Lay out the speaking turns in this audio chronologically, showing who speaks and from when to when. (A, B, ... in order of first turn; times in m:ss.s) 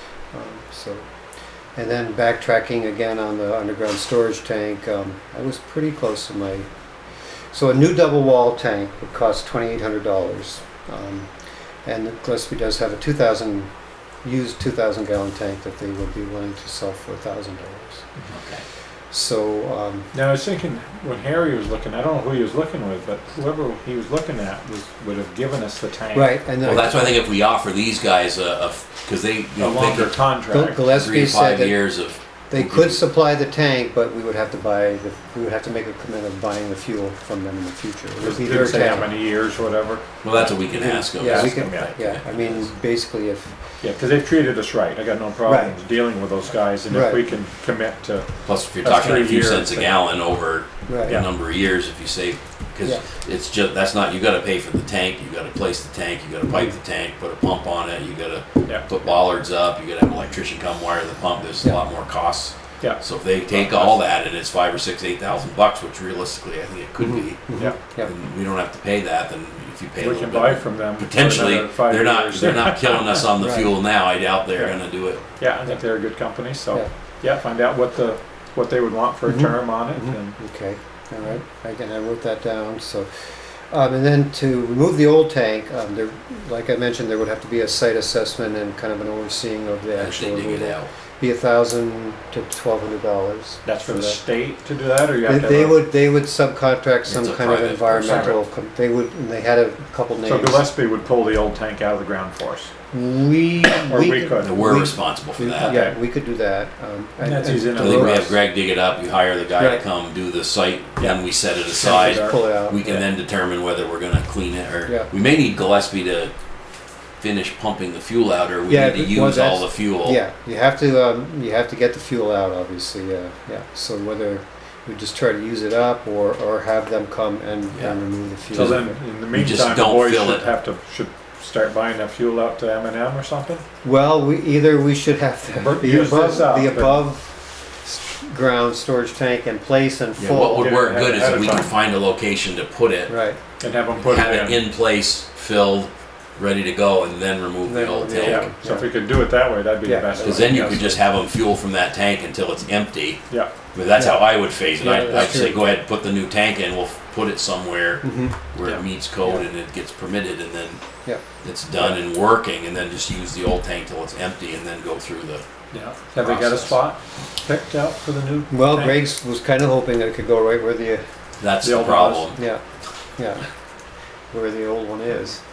0:00.3-0:01.1 A
0:01.8-0:06.7 A
0:07.5-0:11.3 A
0:11.8-0:13.7 A
0:14.2-0:18.1 A
0:18.3-0:18.6 B
0:19.1-0:20.1 A
0:20.1-0:26.4 C
0:26.1-0:27.2 A
0:26.6-0:30.3 B
0:29.6-0:30.8 C
0:30.5-0:31.8 A
0:30.8-0:33.0 B
0:32.5-0:39.1 A
0:38.2-0:40.1 C
0:40.2-0:42.8 B
0:40.6-0:43.6 A
0:41.2-0:41.9 C
0:43.8-0:50.0 C
0:45.4-0:45.8 A
0:46.9-0:47.2 A
0:48.5-1:15.2 B
0:50.9-0:51.2 A
0:56.5-0:56.8 A
1:02.8-1:04.0 C
1:07.0-1:08.1 A
1:10.0-1:13.2 C
1:13.4-1:13.7 A
1:14.6-1:20.4 C
1:19.3-1:34.2 A
1:30.0-1:30.9 B
1:33.6-1:35.8 C
1:35.2-1:40.7 A
1:37.1-1:38.4 B
1:38.0-1:38.4 C
1:40.2-1:42.7 C
1:42.9-1:48.3 A
1:43.9-1:44.5 C
1:44.4-1:45.8 B
1:45.6-1:46.0 C
1:47.2-1:48.3 C
1:47.7-1:56.3 B
1:49.6-1:49.8 A
1:51.0-1:53.0 C
1:51.8-1:53.0 A
1:57.2-2:00.2 B
1:58.7-2:09.0 A
2:08.5-2:13.6 C
2:09.3-2:10.5 B
2:13.8-2:20.7 A
2:15.6-2:17.0 C
2:20.2-2:28.5 B
2:20.6-2:21.7 C
2:23.1-2:23.4 A
2:23.6-2:24.6 C
2:27.6-2:29.0 A
2:28.2-2:31.0 C
2:29.8-2:30.6 A
2:30.2-2:40.8 B
2:34.0-2:35.7 A
2:38.0-2:38.4 A
2:41.4-2:45.4 B
2:45.7-2:49.0 C
2:46.2-2:46.8 B
2:48.5-2:51.0 A
2:51.4-2:52.4 B
2:51.6-2:52.3 C
2:52.3-2:52.6 A
2:53.2-2:53.4 A
2:54.3-2:55.4 A